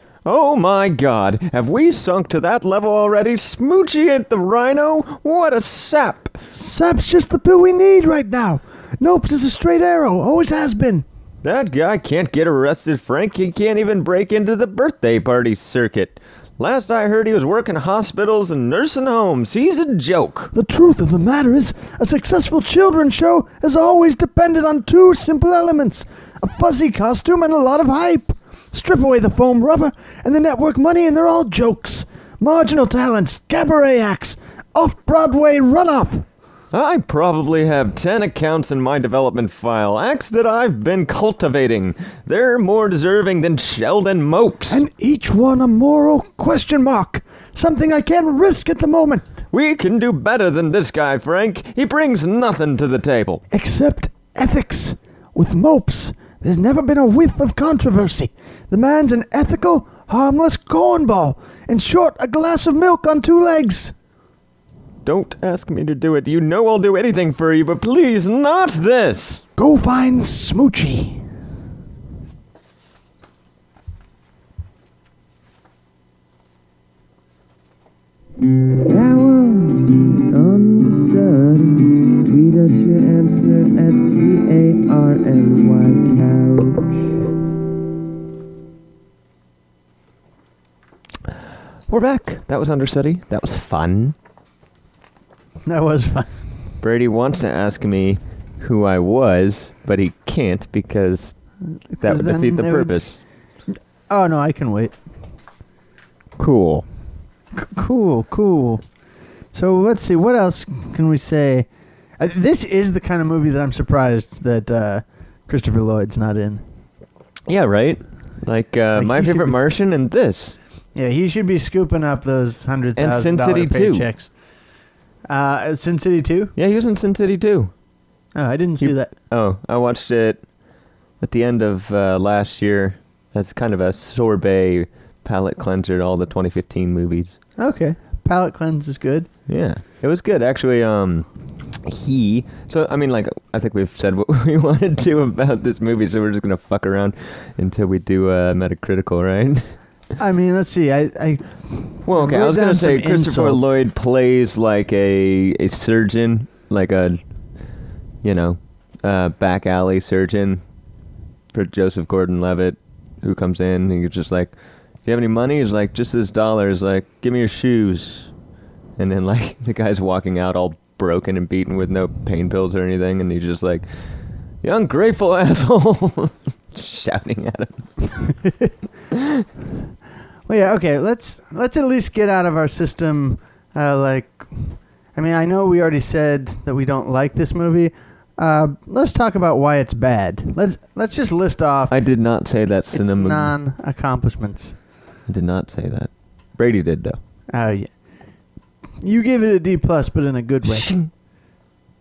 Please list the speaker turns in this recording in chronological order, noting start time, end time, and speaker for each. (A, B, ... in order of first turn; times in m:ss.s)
0:00.2-0:06.3 A
0:06.5-0:11.0 B
0:11.4-0:20.5 A
0:20.5-0:36.2 B
0:36.7-0:44.8 A
0:44.7-0:49.3 B
0:49.5-0:53.4 A
0:53.5-1:03.9 B
1:05.0-1:09.4 A
1:09.6-1:11.2 B
1:18.9-1:26.7 C
1:31.9-1:34.2 A
1:35.6-1:36.3 B
1:36.8-1:41.3 A
1:41.9-1:43.0 B
1:42.0-1:43.2 A
1:44.1-1:44.9 B
1:46.4-1:46.8 A
1:47.5-1:48.8 B
1:49.5-1:51.7 B
1:52.2-1:56.6 B
1:57.5-2:00.6 A
1:58.9-1:59.5 B
2:00.9-2:04.3 B
2:03.0-2:04.1 A
2:05.3-2:06.5 B
2:06.6-2:07.7 A
2:08.4-2:09.1 B
2:08.8-2:10.4 A
2:11.2-2:17.3 A
2:17.6-2:19.3 B
2:19.5-2:21.3 A
2:21.8-2:29.7 A
2:30.2-2:33.8 B
2:32.0-2:37.2 A
2:38.2-2:40.6 A
2:41.5-2:44.5 A
2:45.0-2:48.3 A
2:49.0-2:53.8 A
2:54.6-2:57.8 A
2:59.1-2:59.4 A
3:00.5-3:11.9 B
3:11.9-3:13.5 A
3:12.9-3:14.8 B
3:15.3-3:17.2 A
3:17.5-3:17.9 B
3:19.0-3:21.0 B